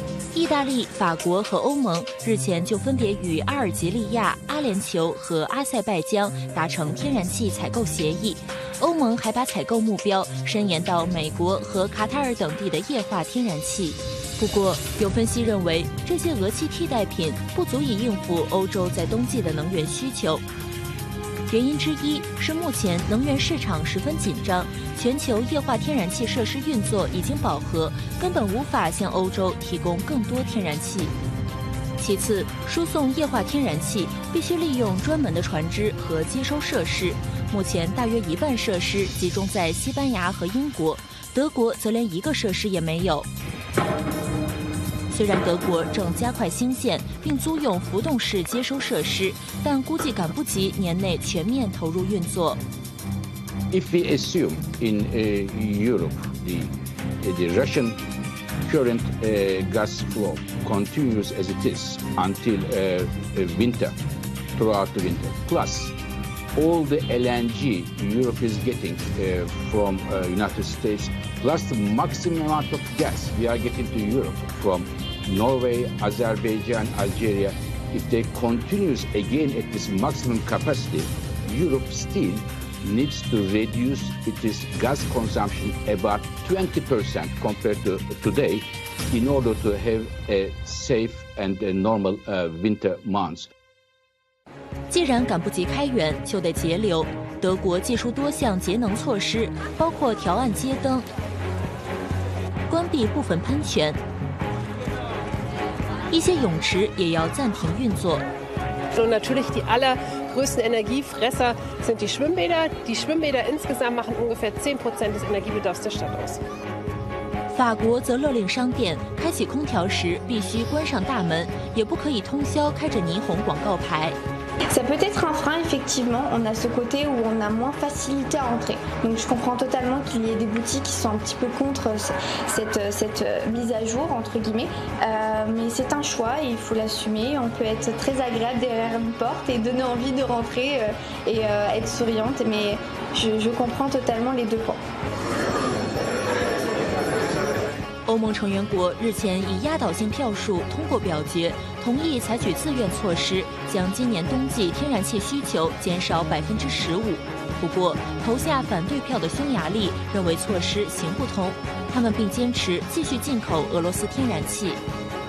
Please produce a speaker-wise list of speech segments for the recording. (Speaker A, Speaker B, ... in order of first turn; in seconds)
Speaker A: 0.3-20.4, 21.5-31.1, 32.0-43.3, 45.1-52.6, 94.9-101.1, 102.7-104.0, 106.1-108.3, 117.5-124.2, 148.1-164.8
Speaker B: 53.7-58.0, 58.7-64.0, 64.6-65.9, 66.6-93.5
Speaker C: 108.9-116.4
Speaker D: 124.7-144.8